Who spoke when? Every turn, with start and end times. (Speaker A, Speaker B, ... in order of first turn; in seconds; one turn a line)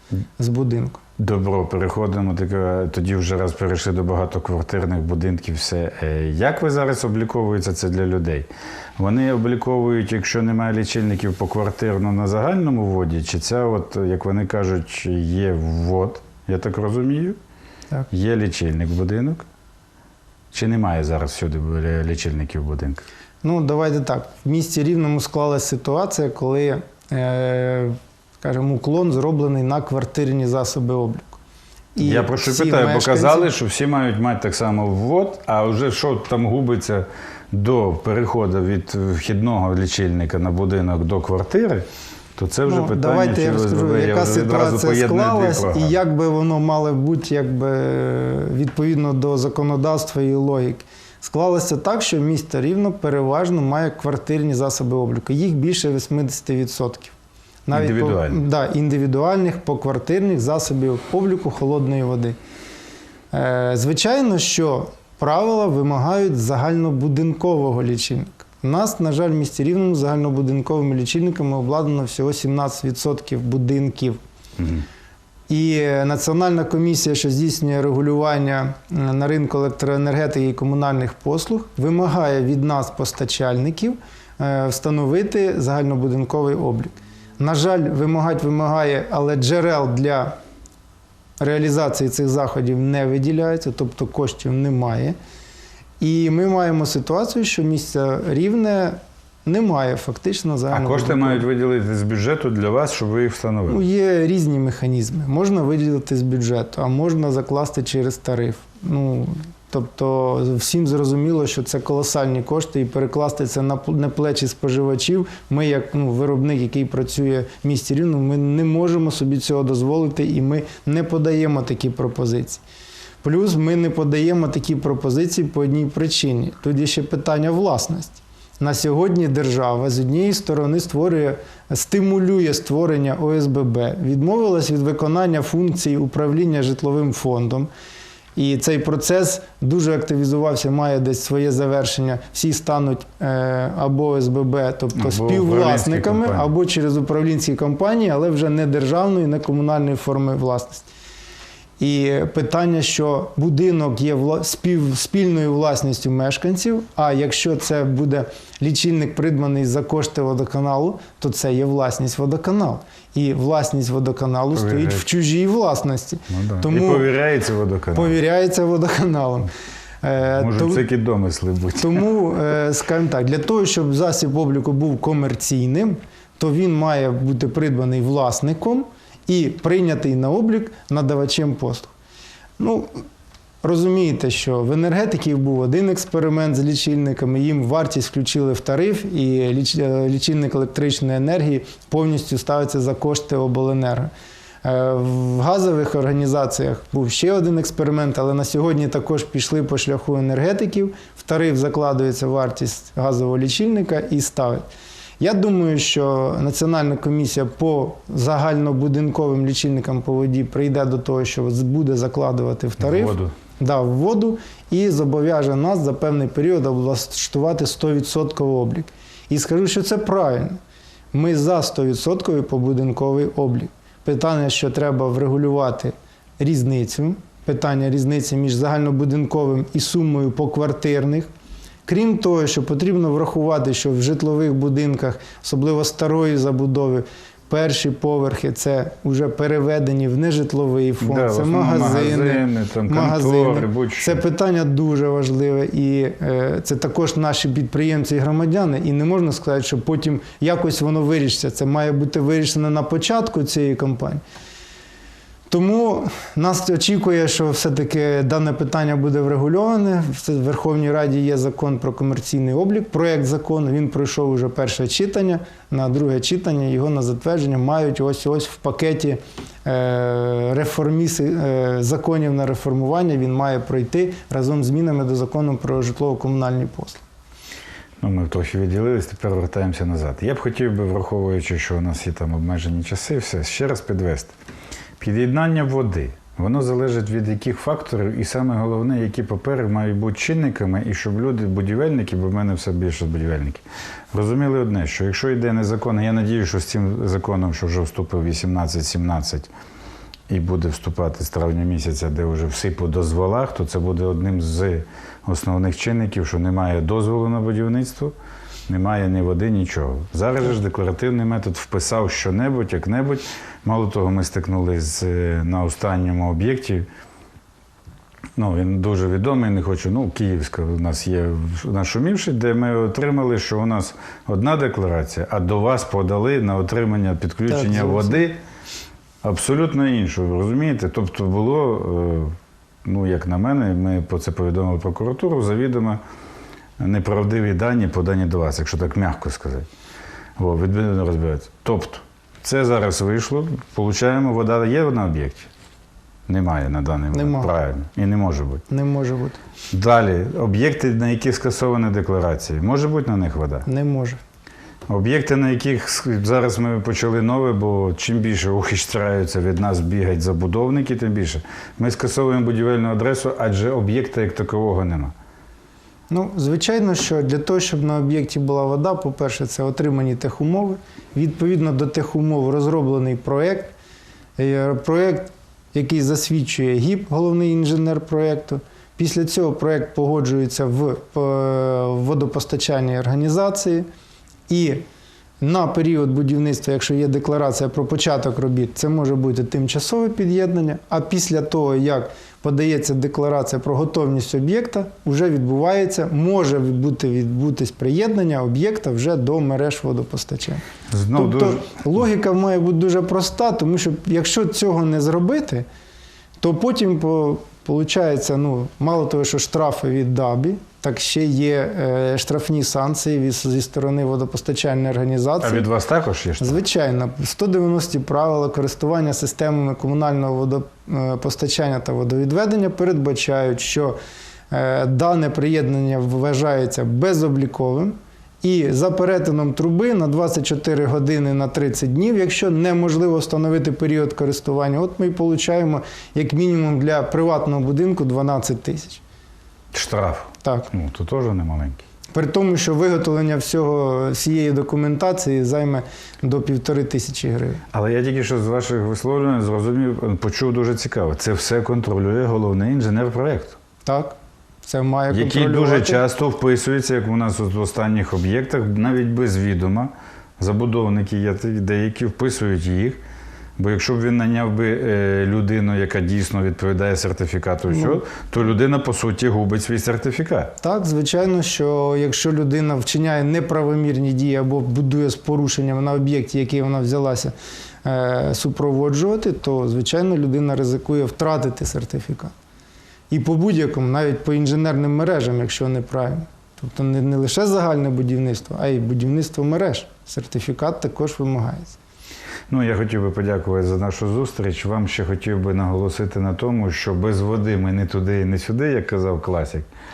Speaker A: 0.4-1.0
Speaker B: 1.2-8.5
Speaker B: 9.0-17.4
Speaker B: 18.1-19.4
Speaker B: 20.5-23.1
Speaker A: 23.4-31.4
Speaker A: 31.9-33.5
Speaker B: 32.0-41.9
Speaker B: 42.4-46.0
Speaker A: 42.6-57.1
Speaker A: 57.7-62.4
Speaker B: 57.7-58.4
Speaker A: 63.3-74.2
Speaker B: 74.6-74.8
Speaker A: 75.5-90.3
Speaker A: 91.4-95.2
Speaker A: 96.0-101.5
Speaker B: 100.7-103.8
Speaker A: 103.7-122.6
Speaker A: 123.2-137.7
Speaker A: 138.4-150.9
Speaker B: 144.9-146.5
Speaker A: 151.8-167.1
Speaker B: 164.5-165.0
Speaker B: 166.3-168.2
Speaker A: 167.9-169.5
Speaker A: 170.0-170.9
Speaker B: 170.4-172.1
Speaker A: 171.8-181.9
Speaker A: 182.6-183.0
Speaker A: 183.6-194.1
Speaker A: 194.6-204.7
Speaker A: 205.2-220.6
Speaker B: 212.8-213.3
Speaker A: 221.1-231.3
Speaker A: 231.9-254.2
Speaker B: 241.0-244.2
Speaker A: 255.5-277.0
Speaker B: 278.0-284.3
Speaker B: 285.0-299.5
Speaker B: 300.3-308.1
Speaker B: 308.7-316.9
Speaker B: 318.4-328.4
Speaker A: 327.5-328.2
Speaker B: 329.2-336.0
Speaker B: 336.8-339.7
Speaker B: 340.4-345.5
Speaker B: 346.3-348.6
Speaker A: 347.1-347.5
Speaker A: 348.7-349.4
Speaker B: 349.7-353.7
Speaker A: 353.7-354.2
Speaker B: 354.9-365.1
Speaker A: 366.1-373.7
Speaker A: 374.4-383.9
Speaker A: 384.5-384.8
Speaker A: 385.4-400.6
Speaker B: 400.9-401.6
Speaker A: 401.1-405.6
Speaker A: 406.4-415.7
Speaker B: 415.4-416.6
Speaker A: 416.4-424.0
Speaker A: 424.5-439.0
Speaker B: 439.7-441.8
Speaker A: 442.1-447.6
Speaker B: 447.7-453.6
Speaker A: 453.9-456.0
Speaker B: 455.1-463.0
Speaker B: 463.6-470.5
Speaker A: 467.7-468.0
Speaker A: 470.6-482.3
Speaker A: 483.1-491.8
Speaker B: 492.5-499.7